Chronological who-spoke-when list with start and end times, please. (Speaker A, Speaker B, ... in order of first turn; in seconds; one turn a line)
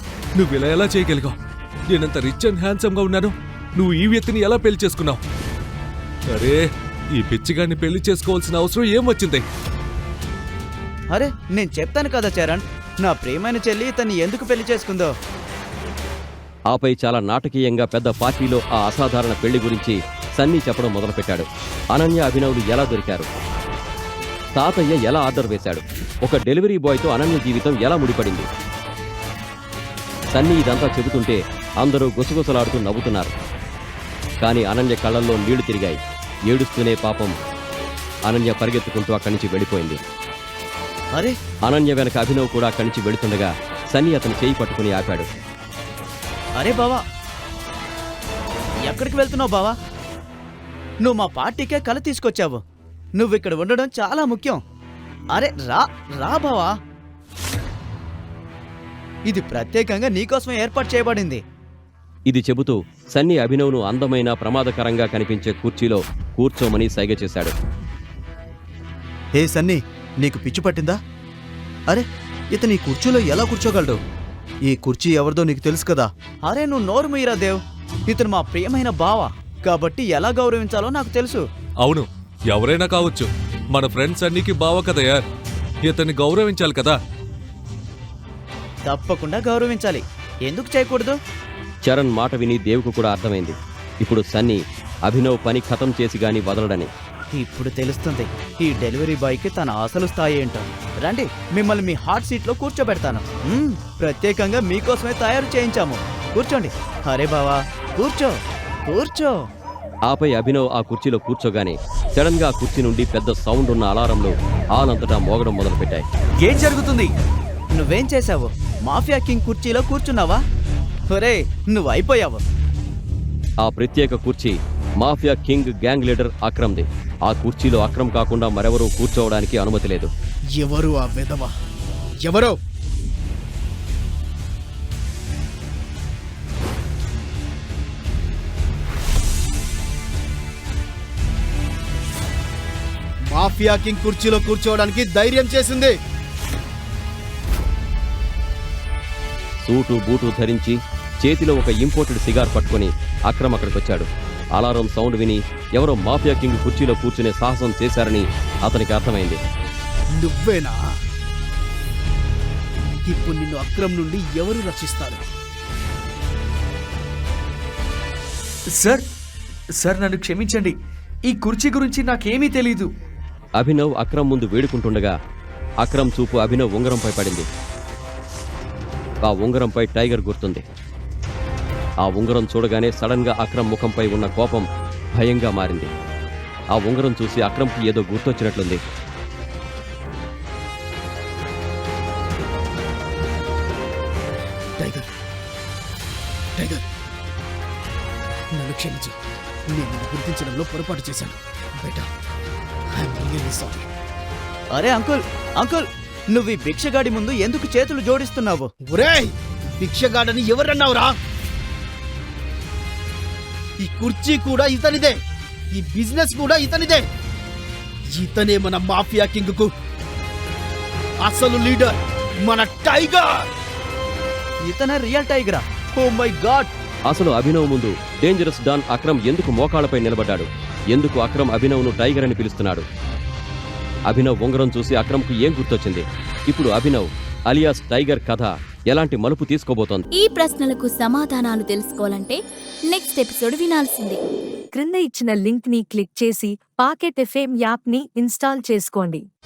Speaker A: 0.4-1.4
Speaker A: 1.9-5.2
Speaker A: 6.3-9.4
Speaker B: 11.1-15.1
Speaker C: 16.7-23.3
Speaker C: 24.6-28.5
Speaker C: 30.3-33.3
Speaker C: 34.4-36.0
Speaker C: 36.5-37.3
Speaker C: 38.3-40.0
Speaker C: 41.6-45.3
Speaker B: 46.6-47.0
Speaker B: 48.9-49.8
Speaker B: 51.0-52.6
Speaker B: 53.2-54.6
Speaker B: 55.3-56.8
Speaker B: 59.3-61.4
Speaker C: 62.3-67.5
Speaker D: 69.3-71.0
Speaker D: 71.9-74.0
Speaker D: 74.7-76.1
Speaker B: 76.5-81.4
Speaker A: 81.8-85.2
Speaker A: 85.8-87.0
Speaker B: 88.9-91.2
Speaker C: 91.8-96.9
Speaker B: 97.3-108.3
Speaker B: 108.9-109.4
Speaker C: 110.1-116.0
Speaker E: 116.4-117.1
Speaker B: 117.7-120.4
Speaker B: 121.1-122.4
Speaker C: 123.6-130.1
Speaker F: 130.6-131.5
Speaker F: 132.2-132.6
Speaker F: 143.3-145.9
Speaker C: 149.6-159.4
Speaker F: 160.2-160.8
Speaker F: 163.1-165.2
Speaker E: 169.8-170.7
Speaker E: 171.3-172.9
Speaker C: 173.6-175.1
Speaker C: 175.8-177.5
Speaker C: 179.2-180.6
Speaker C: 182.0-185.9
Speaker C: 186.7-188.8
Speaker F: 194.8-195.1
Speaker F: 196.6-196.8
Speaker F: 198.6-199.1
Speaker F: 199.7-202.1
Speaker F: 203.0-203.8
Speaker B: 204.7-208.7
Speaker F: 208.9-211.1
Speaker F: 213.8-215.1
Speaker F: 215.7-217.0
Speaker F: 218.2-219.7
Speaker F: 221.2-223.5
Speaker B: 224.7-226.7
Speaker C: 227.1-232.8
Speaker C: 234.1-240.1
Speaker G: 240.1-244.2
Speaker H: 244.8-249.2